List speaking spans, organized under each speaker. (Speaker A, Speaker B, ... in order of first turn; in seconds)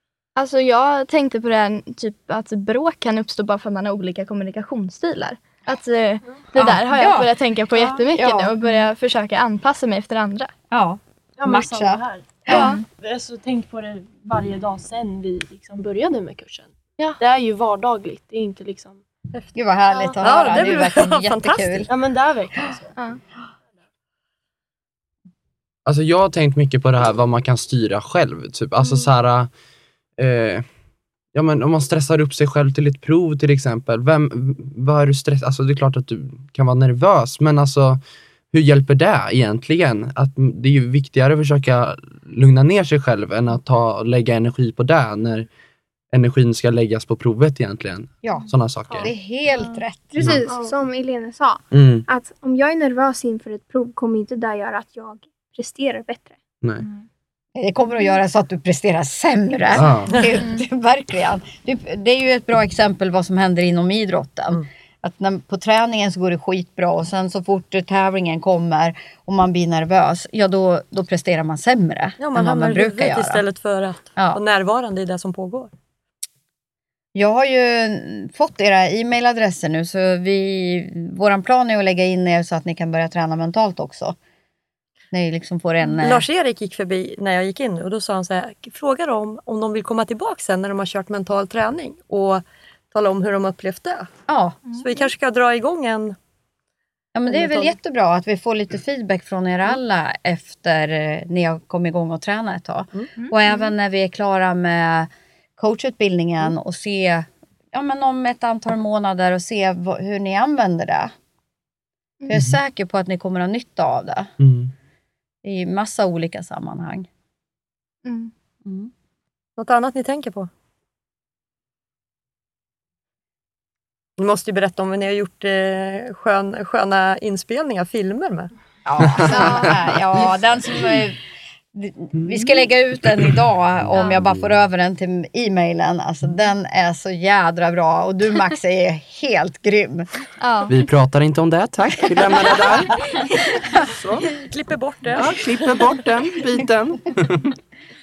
Speaker A: 0.3-10.5, 11.4-11.9, 12.5-13.5, 14.3-14.8, 118.0-118.3, 129.4-129.6, 140.4-140.7
Speaker B: 6.6-8.7, 10.7-12.7, 19.6-21.9, 48.2-50.2, 57.6-73.4, 74.2-74.4, 77.2-84.2, 85.1-86.3, 94.3-94.6, 97.2-111.1, 112.3-114.3, 115.4-117.1, 118.7-118.9, 128.9-131.2, 131.7-140.1
Speaker C: 12.3-16.7, 17.2-19.0, 22.0-22.4
Speaker D: 20.2-21.9, 72.2-75.7, 86.0-94.1, 94.8-96.2, 97.2-97.8, 119.6-120.5, 124.2-128.5, 144.3-145.9
Speaker E: 25.9-29.5, 30.2-30.6, 31.3-45.5, 46.1-49.1, 50.2-50.5, 51.7-52.1, 59.8-60.2, 112.3-112.6, 114.4-114.7, 129.2-129.8, 132.2-132.7, 133.2-134.7, 140.7-143.0, 143.8-144.3, 145.2-147.6
Speaker F: 49.5-56.4